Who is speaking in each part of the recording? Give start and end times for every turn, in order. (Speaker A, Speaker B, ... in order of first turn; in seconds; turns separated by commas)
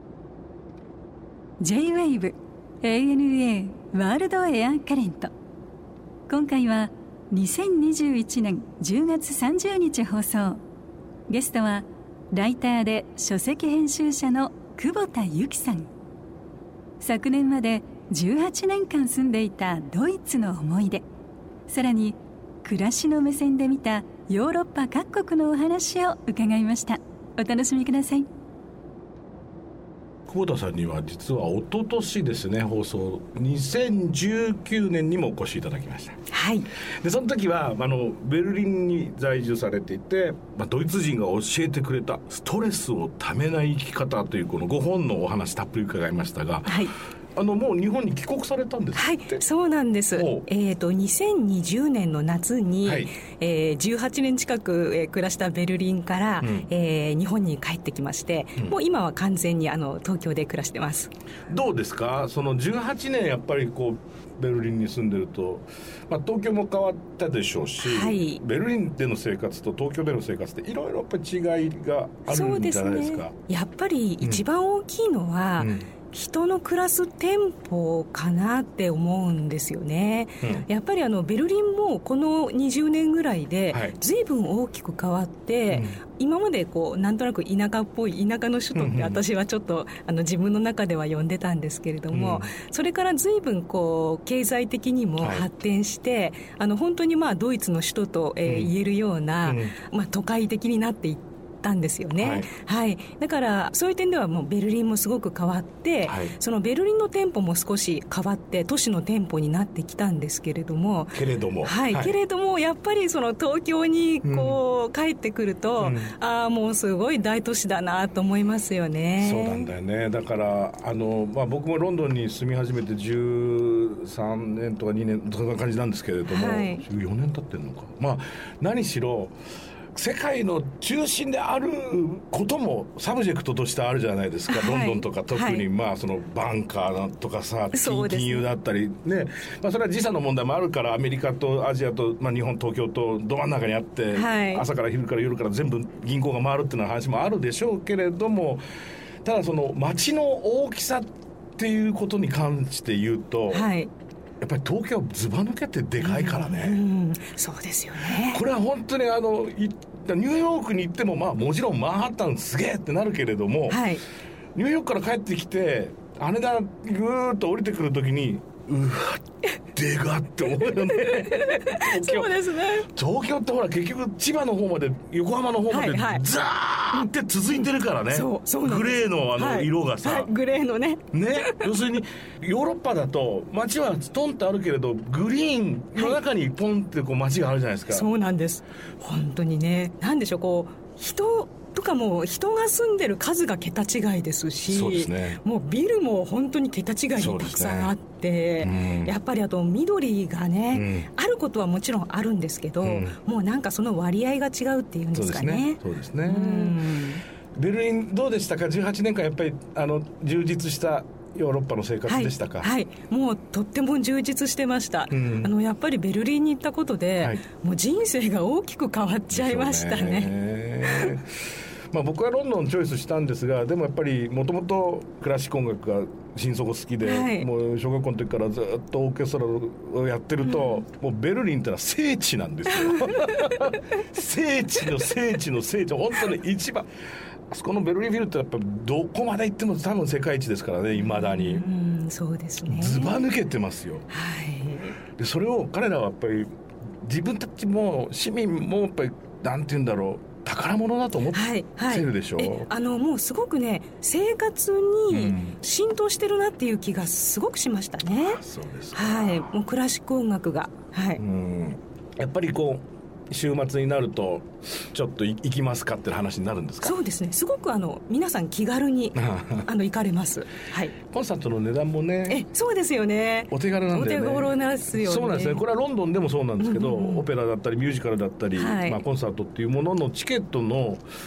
Speaker A: 1.6-5.3, Speaker A: 6.3-10.6, Speaker A: 11.3-15.9, Speaker A: 17.0-21.0, Speaker A: 21.7-28.3, Speaker B: 30.3-36.2, Speaker C: 36.3-36.7, Speaker B: 37.0-49.4, Speaker C: 46.6-46.9, Speaker C: 49.0-61.1, Speaker B: 50.1-50.5, Speaker B: 52.8-53.1, Speaker B: 56.4-56.7, Speaker B: 61.5-73.3, Speaker C: 67.8-68.4, Speaker C: 72.3-119.7, Speaker B: 75.6-75.9, Speaker B: 80.4-80.7, Speaker B: 83.7-84.0, Speaker B: 85.7-86.0, Speaker B: 88.7-89.2, Speaker B: 92.1-92.5, Speaker B: 95.2-95.5, Speaker B: 98.5-98.7, Speaker B: 99.4-99.7, Speaker B: 102.2-102.5, Speaker B: 106.0-106.3, Speaker B: 111.1-112.2, Speaker B: 114.2-114.6, Speaker B: 115.8-116.1, Speaker B: 119.2-129.3, Speaker C: 126.3-126.8, Speaker B: 129.9-148.6, Speaker C: 134.5-135.6, Speaker C: 137.7-138.4, Speaker C: 144.1-144.7, Speaker B: 149.2-153.7, Speaker C: 153.5-153.9, Speaker B: 154.4-156.8, Speaker C: 156.0-158.4, Speaker B: 158.2-163.9, Speaker C: 163.7-164.0, Speaker B: 164.5-180.3, Speaker C: 170.7-172.9, Speaker C: 175.7-176.2, Speaker C: 178.1-181.8, Speaker B: 181.1-188.1, Speaker C: 187.9-207.2, Speaker B: 194.7-195.4, Speaker B: 197.2-197.9, Speaker B: 198.6-199.1, Speaker B: 200.7-201.1, Speaker B: 202.8-203.2, Speaker B: 205.1-207.0, Speaker B: 207.5-212.7, Speaker C: 212.1-221.1, Speaker B: 215.1-215.5, Speaker B: 219.3-221.4, Speaker B: 221.9-236.9, Speaker C: 227.0-227.5, Speaker C: 232.7-233.6, Speaker B: 237.5-241.7, Speaker C: 241.0-243.2, Speaker B: 242.6-244.1, Speaker C: 244.1-245.0, Speaker B: 245.2-252.7, Speaker C: 251.3-258.4, Speaker B: 255.1-255.6, Speaker B: 258.1-259.5, Speaker C: 258.9-261.2, Speaker B: 261.2-267.0, Speaker C: 266.8-270.9, Speaker B: 269.1-269.7, Speaker B: 271.0-272.4, Speaker C: 272.3-275.6, Speaker B: 273.5-281.0, Speaker C: 276.6-277.2, Speaker C: 278.6-279.0